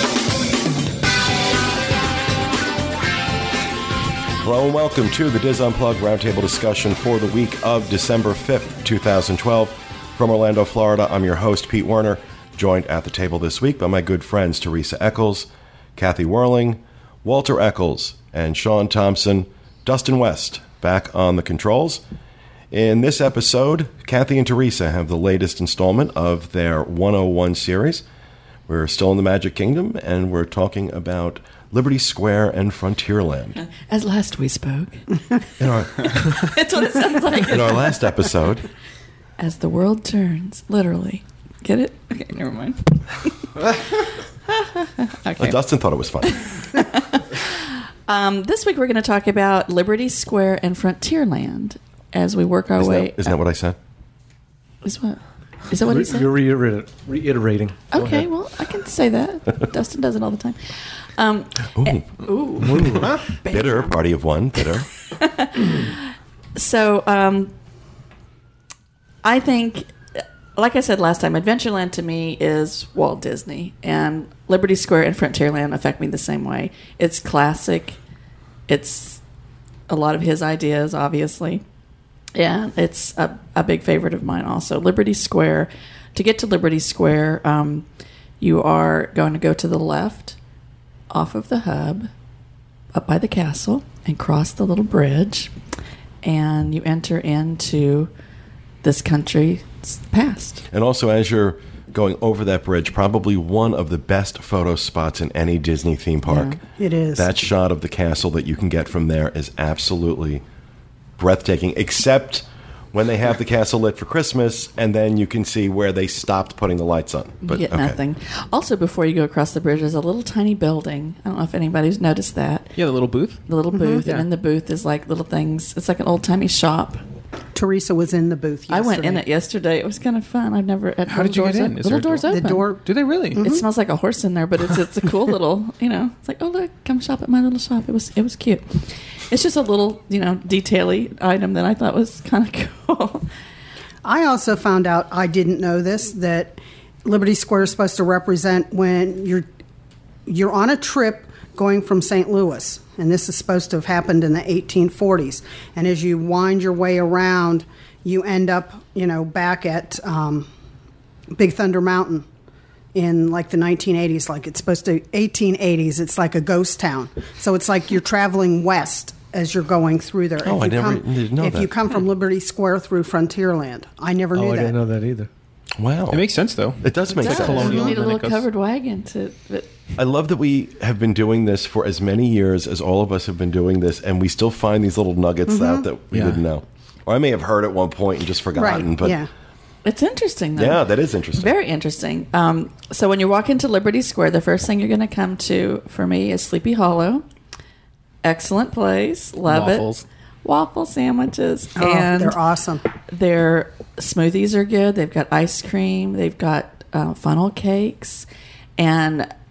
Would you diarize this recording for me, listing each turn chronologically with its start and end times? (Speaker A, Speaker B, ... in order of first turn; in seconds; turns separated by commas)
Speaker A: 4.4-22.0, Speaker A: 22.7-28.0, Speaker A: 28.7-33.6, Speaker B: 33.7-35.1, Speaker A: 35.6-36.3, Speaker B: 36.0-38.2, Speaker A: 37.5-38.7, Speaker B: 39.4-45.6, Speaker A: 45.4-46.4, Speaker B: 46.2-53.3, Speaker A: 52.8-53.8, Speaker B: 54.8-56.3, Speaker C: 55.9-58.3, Speaker B: 57.9-63.9, Speaker A: 61.8-62.1, Speaker A: 62.7-64.9, Speaker B: 65.1-67.5, Speaker B: 69.2-69.9, Speaker B: 70.6-78.0, Speaker B: 78.7-79.2, Speaker B: 79.9-81.6, Speaker B: 82.4-87.8, Speaker B: 88.4-90.4, Speaker B: 91.1-92.1, Speaker B: 92.9-95.5, Speaker B: 96.2-98.1, Speaker B: 98.8-100.6, Speaker A: 100.7-106.6, Speaker B: 106.3-106.6, Speaker D: 106.8-107.3, Speaker A: 107.2-110.4, Speaker A: 111.2-118.0, Speaker B: 117.5-122.8, Speaker E: 122.8-123.4, Speaker B: 123.5-127.0, Speaker D: 123.7-124.0, Speaker D: 127.5-129.2, Speaker B: 128.7-132.6, Speaker E: 131.1-133.4, Speaker D: 132.3-132.8, Speaker D: 133.3-133.7, Speaker B: 133.4-143.3, Speaker D: 144.0-149.5, Speaker D: 150.3-160.5, Speaker D: 161.3-162.3, Speaker D: 162.9-174.8, Speaker A: 170.4-171.7, Speaker C: 174.3-175.3, Speaker A: 175.8-176.2, Speaker E: 176.1-178.5, Speaker A: 176.8-177.7, Speaker B: 177.2-179.7, Speaker D: 177.4-178.0, Speaker A: 180.0-189.2, Speaker D: 185.5-185.9, Speaker E: 186.1-186.4, Speaker D: 188.6-189.3, Speaker B: 189.8-190.8, Speaker A: 190.6-191.5, Speaker B: 191.4-197.2, Speaker B: 198.2-199.9, Speaker E: 199.5-200.1, Speaker B: 200.4-202.4, Speaker D: 201.8-202.8, Speaker B: 203.1-208.3, Speaker B: 208.8-209.3